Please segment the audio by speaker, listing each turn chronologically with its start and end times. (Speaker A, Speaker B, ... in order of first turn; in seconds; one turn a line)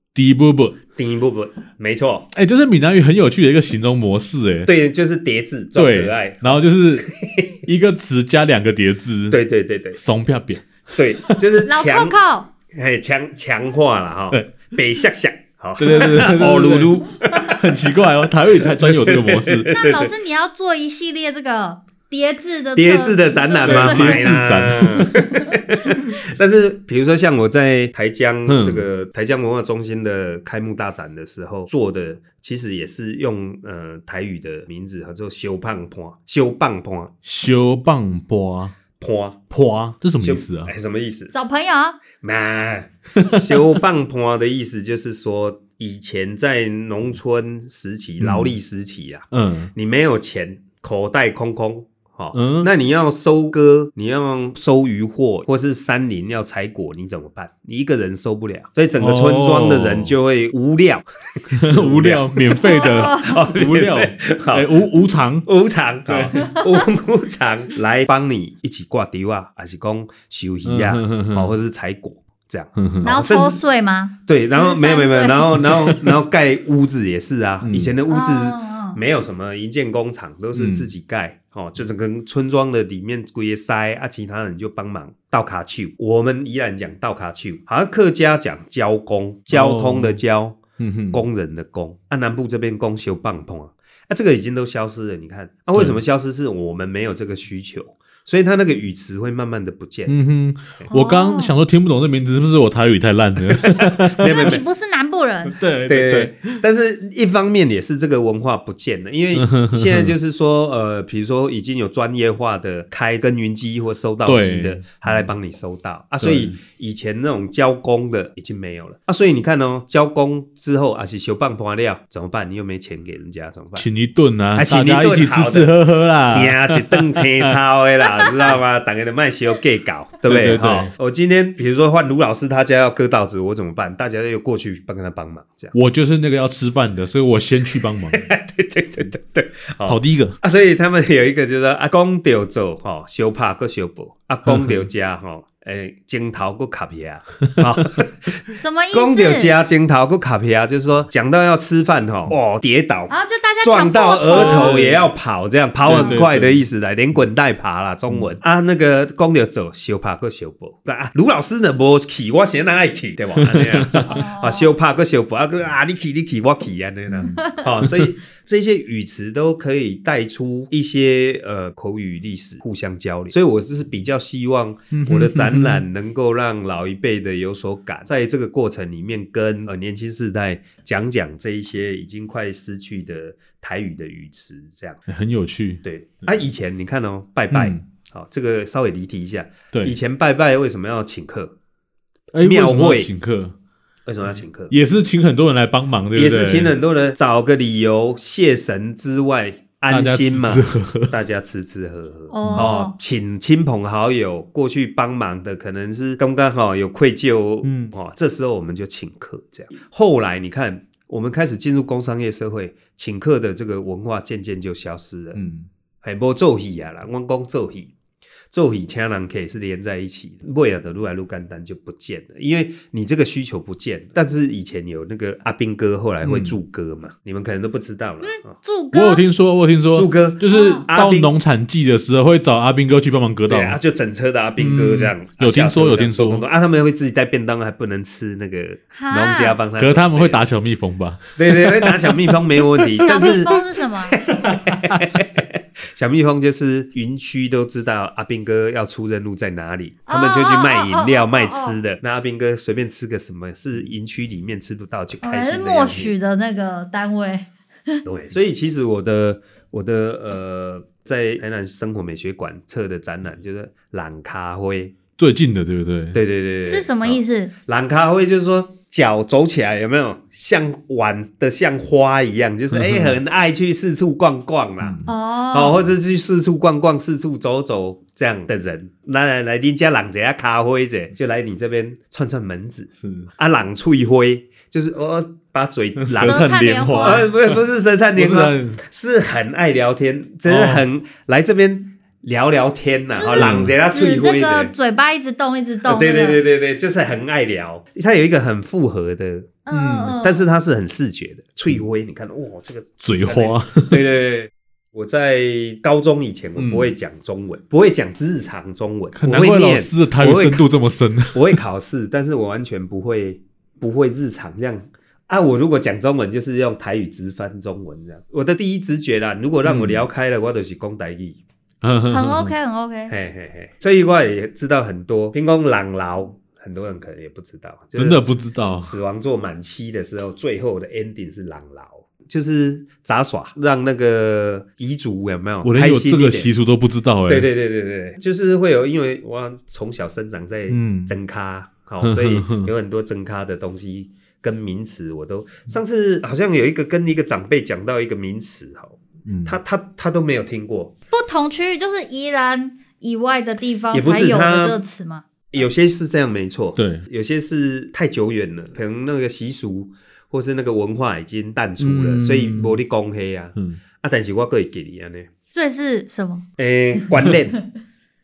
Speaker A: 0.1-0.8
Speaker B: 0.9-2.3
Speaker A: 2.3-4.7
Speaker B: 4.7-7.6
Speaker A: 5.8-7.1
Speaker A: 7.6-9.4
Speaker B: 9.3-10.0
Speaker A: 9.9-10.7
Speaker B: 10.9-12.2
Speaker C: 11.7-12.5
Speaker B: 12.7-17.6
Speaker A: 14.3-14.6
Speaker A: 15.8-19.7
Speaker B: 18.5-20.1
Speaker C: 19.7-24.4
Speaker B: 22.8-37.1
Speaker A: 23.6-25.3
Speaker A: 28.5-28.9
Speaker A: 37.2-38.8
Speaker B: 39.0-39.4
Speaker A: 39.5-40.7
Speaker B: 40.2-41.3
Speaker C: 41.3-42.0
Speaker B: 42.2-64.8
Speaker A: 48.2-48.6
Speaker A: 49.3-49.7
Speaker A: 52.3-52.7
Speaker A: 59.0-60.1
Speaker A: 61.5-65.5
Speaker C: 62.6-63.4
Speaker B: 65.5-73.6
Speaker A: 66.1-66.6
Speaker A: 70.7-71.5
Speaker A: 72.8-73.1
Speaker C: 73.0-75.7
Speaker B: 74.3-90.6
Speaker A: 75.6-76.2
Speaker A: 77.6-77.9
Speaker C: 78.1-79.0
Speaker A: 80.5-80.9
Speaker A: 89.5-90.2
Speaker A: 90.8-91.2
Speaker B: 91.1-100.2
Speaker A: 95.7-96.0
Speaker A: 100.1-104.5
Speaker C: 100.9-101.5
Speaker B: 103.6-104.6
Speaker C: 104.2-105.6
Speaker A: 105.5-106.6
Speaker B: 105.9-123.9
Speaker A: 109.3-110.2
Speaker A: 114.2-115.3
Speaker A: 116.2-116.6
Speaker A: 123.8-127.6
Speaker B: 124.5-135.8
Speaker A: 130.2-130.9
Speaker A: 135.7-138.3
Speaker B: 138.1-185.0
Speaker A: 139.9-140.4
Speaker A: 144.5-144.8
Speaker C: 148.6-149.5
Speaker C: 153.1-154.8
Speaker A: 154.3-155.1
Speaker A: 155.8-156.7
Speaker C: 155.9-156.2
Speaker A: 163.4-164.1
Speaker C: 164.1-164.7
Speaker A: 167.1-168.1
Speaker C: 167.3-167.6
Speaker A: 174.9-175.9
Speaker A: 185.1-185.8
Speaker B: 185.8-191.6
Speaker A: 187.5-187.8
Speaker A: 192.3-193.6
Speaker B: 192.4-193.1
Speaker B: 194.1-194.8
Speaker A: 194.7-196.8
Speaker B: 196.2-215.4
Speaker A: 199.9-201.1
Speaker C: 202.3-202.9
Speaker A: 202.4-202.8
Speaker A: 207.6-207.9
Speaker A: 215.4-215.7
Speaker B: 216.0-217.9
Speaker B: 218.5-228.6
Speaker A: 226.2-226.6
Speaker C: 228.2-229.2
Speaker A: 228.9-233.8
Speaker B: 229.9-231.3
Speaker C: 230.5-230.8
Speaker B: 233.5-240.4
Speaker A: 234.6-236.4
Speaker C: 238.9-239.6
Speaker A: 239.8-242.4
Speaker B: 241.4-256.1
Speaker C: 243.0-244.2
Speaker A: 243.1-243.4
Speaker A: 244.4-245.2
Speaker C: 250.1-251.8
Speaker C: 255.2-258.0
Speaker B: 258.1-265.0
Speaker A: 265.2-266.2
Speaker B: 266.1-294.7
Speaker C: 266.7-267.5
Speaker A: 272.7-273.2
Speaker A: 274.8-275.1
Speaker C: 275.1-275.8
Speaker A: 283.0-283.3
Speaker A: 286.0-287.6
Speaker C: 286.2-287.2
Speaker A: 288.1-288.8
Speaker A: 290.5-290.9
Speaker C: 293.2-296.4
Speaker A: 293.3-293.8
Speaker B: 295.9-299.6
Speaker C: 299.7-300.5
Speaker A: 299.7-300.2
Speaker B: 300.1-310.7
Speaker A: 303.0-304.0
Speaker A: 306.6-306.9
Speaker A: 309.2-311.6
Speaker B: 311.3-321.4
Speaker A: 319.6-320.0
Speaker A: 321.8-322.5
Speaker C: 322.1-323.1
Speaker B: 323.1-336.5
Speaker A: 328.0-328.9
Speaker A: 335.6-337.5
Speaker B: 337.3-350.9
Speaker A: 340.7-341.1
Speaker A: 342.0-342.7
Speaker A: 349.3-349.6
Speaker C: 351.1-355.2
Speaker B: 353.9-354.8
Speaker B: 355.5-365.3
Speaker A: 356.8-357.1
Speaker A: 361.8-362.8
Speaker C: 365.6-366.5
Speaker B: 366.6-367.6